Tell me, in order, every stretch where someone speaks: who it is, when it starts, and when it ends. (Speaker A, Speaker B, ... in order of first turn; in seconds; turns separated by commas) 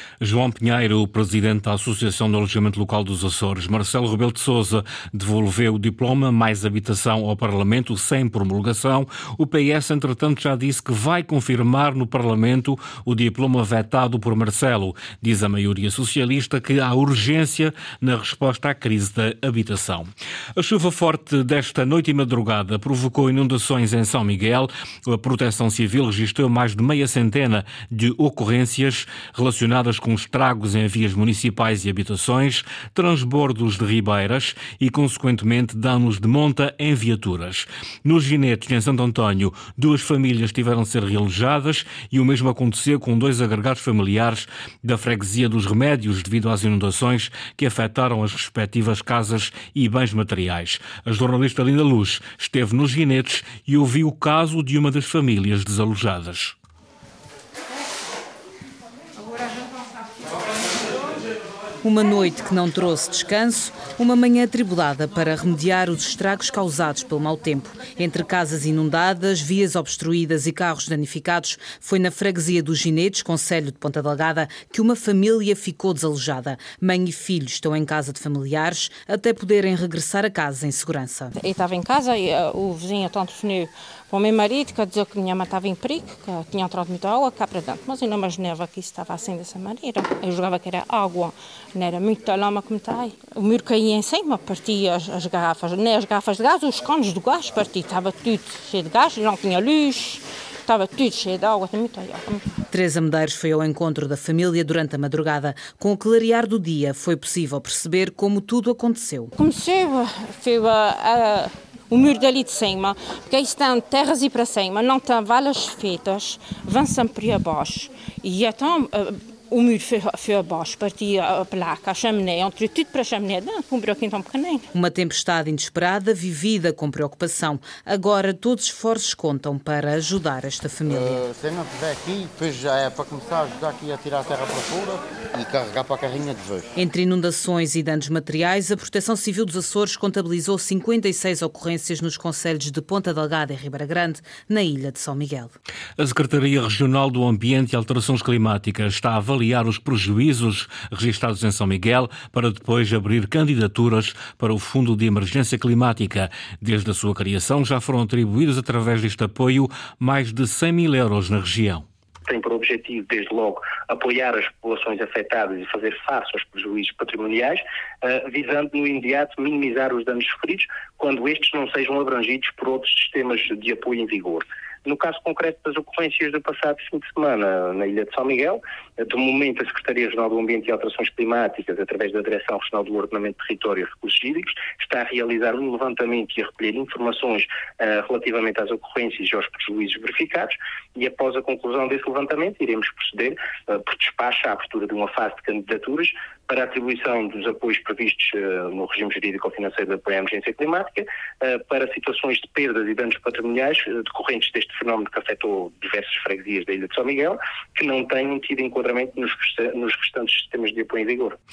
Speaker A: 0.2-56.5, Speaker B: 61.8-81.4, Speaker C: 81.5-102.4, Speaker B: 102.7-109.3, Speaker C: 109.4-124.6, Speaker B: 124.7-131.2, Speaker D: 130.8-136.7, Speaker B: 136.8-145.5, Speaker A: 146.0-161.8, Speaker E: 162.3-211.4